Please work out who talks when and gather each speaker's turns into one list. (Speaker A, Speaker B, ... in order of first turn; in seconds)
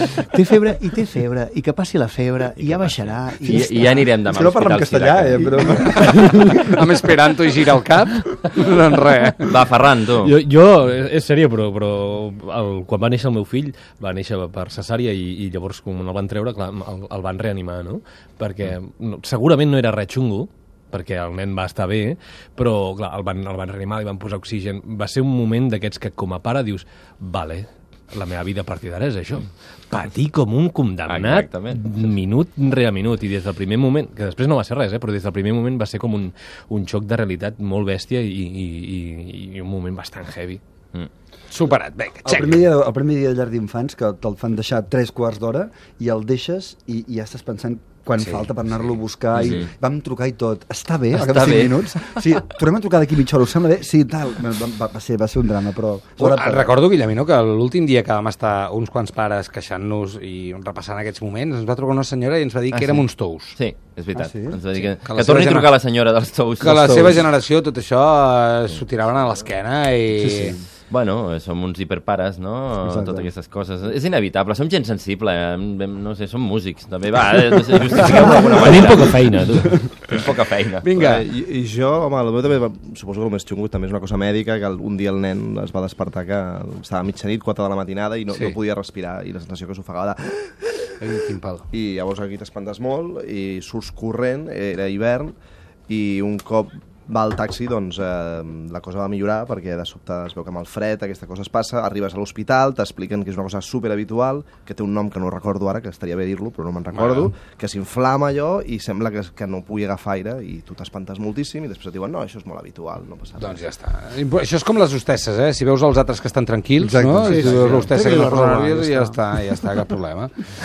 Speaker A: 0.3-4.1, 117.2-119.2
Speaker B: 2.6-5.7, 9.5-10.4, 31.1-32.0, 49.4-49.7, 51.1-51.9, 62.7-67.1, 70.9-79.2, 80.1-80.8
Speaker C: 4.3-5.9, 42.2-56.7, 64.2-64.6, 66.7-67.2, 70.2-70.6, 72.8-73.3, 117.1-117.8
Speaker D: 5.6-9.5, 41.5-42.7, 48.2-48.5, 56.2-63.6, 64.8-65.7, 66.6-70.6, 80.8-81.2, 88.3-88.6, 91.0-91.7, 106.9-107.3, 113.4-120.3
Speaker E: 8.1-8.7, 10.2-40.6, 78.2-79.8
Speaker F: 80.9-91.0, 91.7-95.3, 95.9-113.6